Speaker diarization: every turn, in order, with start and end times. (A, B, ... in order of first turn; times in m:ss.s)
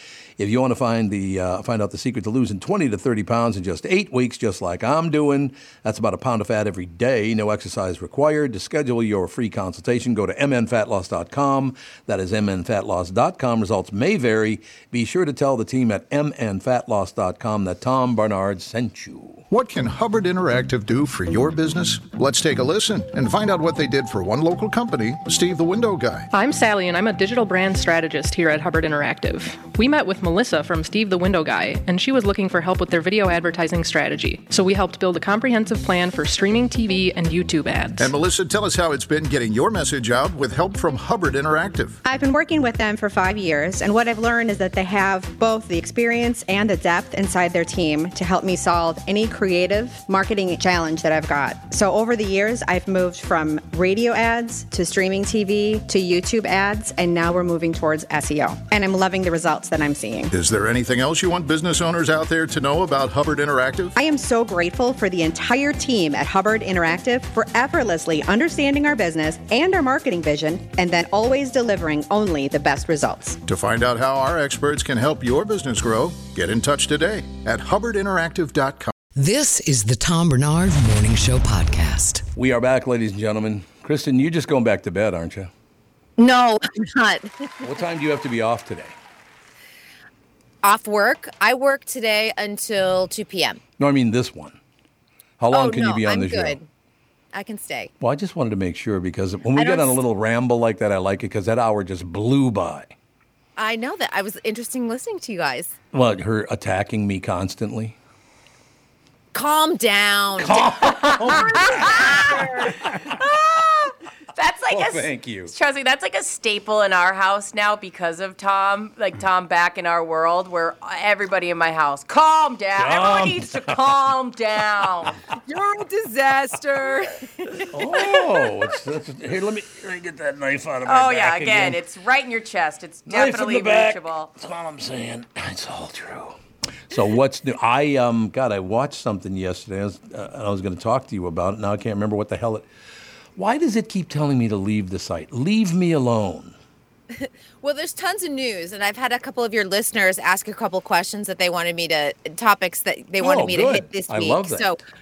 0:00.4-0:19.4 A
0:19.5-0:26.3 B
0:26.3-0:38.1 C
0:38.0-0:42.0 B
0:42.0-1:00.3 D
1:00.3-1:04.0 B
1:04.0-1:13.4 D
1:13.4-1:18.9 B
1:19.2-1:22.3 E
1:22.4-1:25.5 A
1:26.2-1:27.3 F
1:27.6-1:29.0 A
1:30.6-1:33.6 F
1:33.8-1:34.6 A
1:35.4-1:36.6 A
1:35.5-1:36.7 F
1:37.3-1:37.9 F
1:38.0-1:42.9 A
1:39.5-1:40.0 F
1:43.6-1:45.8 F
1:45.9-1:48.0 A
1:49.3-1:53.9 F
1:50.4-1:53.0 A
1:50.8-1:51.4 G
1:54.4-2:05.2 G
1:54.7-1:55.5 A
2:02.8-2:03.9 A
2:05.4-2:08.2 F
2:07.7-2:11.8 A
2:10.8-2:14.3 G
2:13.1-2:16.4 A
2:16.9-2:22.7 A
2:23.4-2:26.6 A
2:27.1-2:34.8 F
2:33.2-2:34.7 A